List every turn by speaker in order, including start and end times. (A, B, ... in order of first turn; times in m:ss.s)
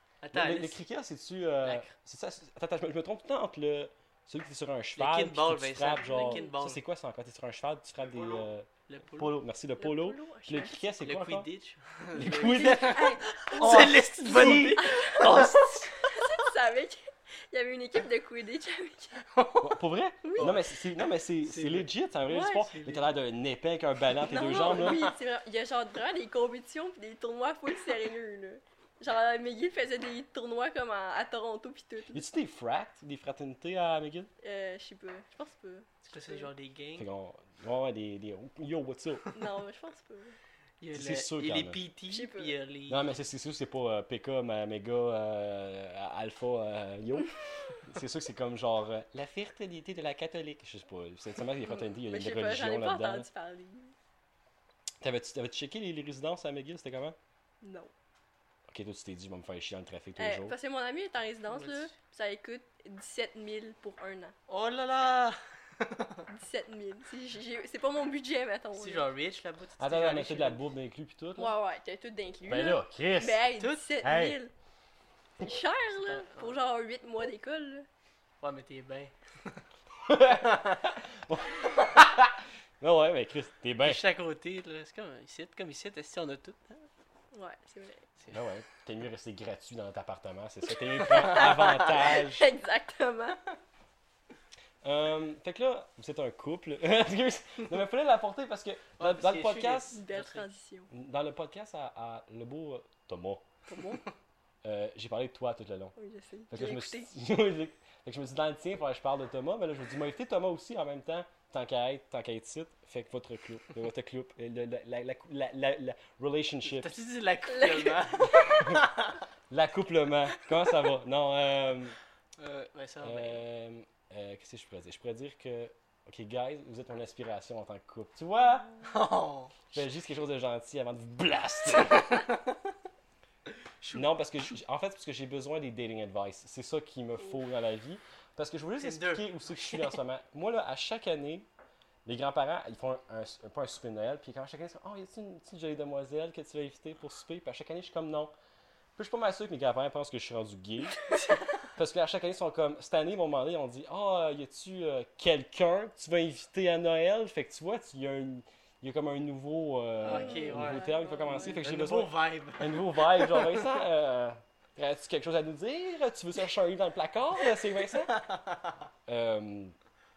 0:00.2-0:00.8 A
0:00.3-0:11.5 B
0:01.6-0:01.9 A
0:05.0-0:06.8 A
0:05.9-0:06.5 C
0:08.0-0:09.3 A
0:09.8-0:10.8 C
0:11.0-0:15.7 A
0:12.2-0:15.9 B
0:12.2-0:15.4 C
0:15.9-0:19.2 C
0:19.3-0:19.8 A
0:19.6-0:25.1 B
0:20.2-0:20.6 C
0:20.3-0:20.8 A
0:21.4-0:21.9 A
0:22.3-0:22.6 C
0:22.4-0:23.1 A
0:24.2-0:32.2 C
0:24.5-0:25.1 A
0:32.1-0:34.3 B
0:34.4-0:36.5 C
0:36.0-0:37.1 A
0:37.0-0:39.3 B
0:39.3-0:40.4 C
0:40.8-0:43.1 A
0:40.9-0:41.8 B
0:42.1-0:42.5 C
0:42.9-0:53.3 B
0:51.6-0:53.9 C
0:55.0-0:57.2 B
0:57.6-0:57.9 C
0:58.7-1:00.6 B
1:00.2-1:04.3 C
1:01.5-1:01.9 A
1:04.5-1:06.2 A
1:06.3-1:09.1 C
1:08.7-1:10.6 A
1:09.8-1:11.5 B
1:11.4-1:14.5 C
1:12.5-1:13.5 B
1:13.6-1:13.9 A
1:14.0-1:14.4 B
1:15.4-1:17.8 C
1:16.0-1:16.6 A
1:18.4-1:19.6 A
1:20.1-1:24.0 B
1:23.8-1:26.8 A
1:27.3-1:28.0 C
1:28.3-1:32.5 B
1:31.0-1:33.4 C
1:34.8-1:40.0 B
1:39.0-1:40.5 A
1:39.9-1:40.9 C
1:40.9-1:43.4 B
1:43.7-1:44.0 C
1:44.6-1:45.9 B
1:46.0-1:47.1 C
1:46.5-1:56.9 B
1:56.6-1:59.2 A
1:57.5-1:58.6 C
1:58.4-1:58.8 B
1:59.5-2:02.0 B
2:02.4-2:03.4 A
2:03.0-2:08.8 B
2:08.8-2:09.6 A
2:09.7-2:12.3 B
2:13.9-2:21.5 B
2:18.8-2:20.0 A
2:22.0-2:28.3 B
2:29.0-2:31.0 B
2:31.1-2:31.5 A
2:31.8-2:48.2 B
2:40.0-2:43.8 A
2:40.0-2:41.6 C
2:48.0-2:48.7 A
2:49.1-2:49.7 B